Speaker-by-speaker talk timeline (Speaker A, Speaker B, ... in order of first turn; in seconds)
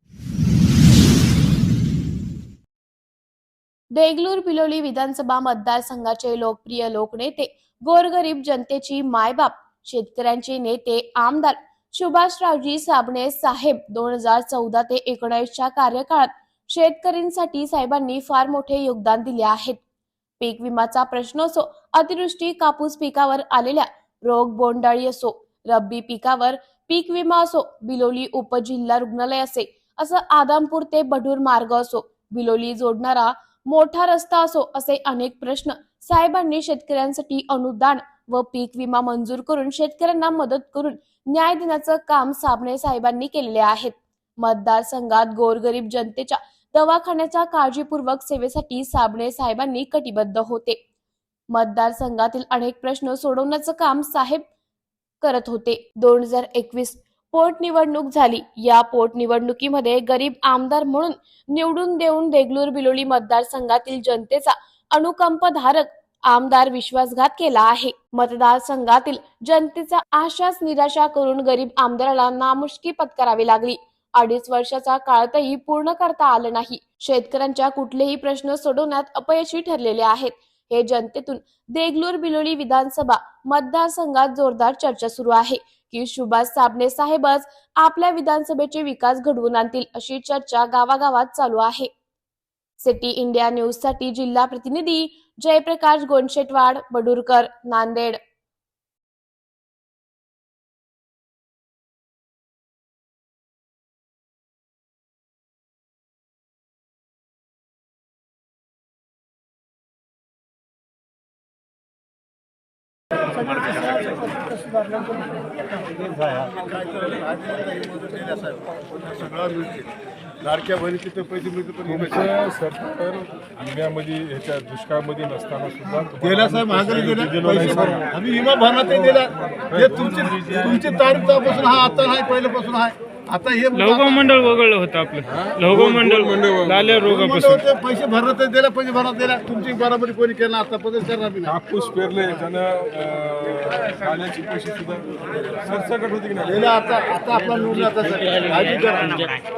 Speaker A: 3.9-19.8, 20.4-50.8, 51.5-54.5, 55.2-91.9, 92.8-98.2
Speaker B: 116.2-119.9, 120.4-122.3, 126.2-134.3, 137.1-141.5, 146.4-149.4
Speaker C: 121.9-128.1, 129.7-130.5, 135.2-137.1, 141.4-146.6
Speaker D: 133.7-137.6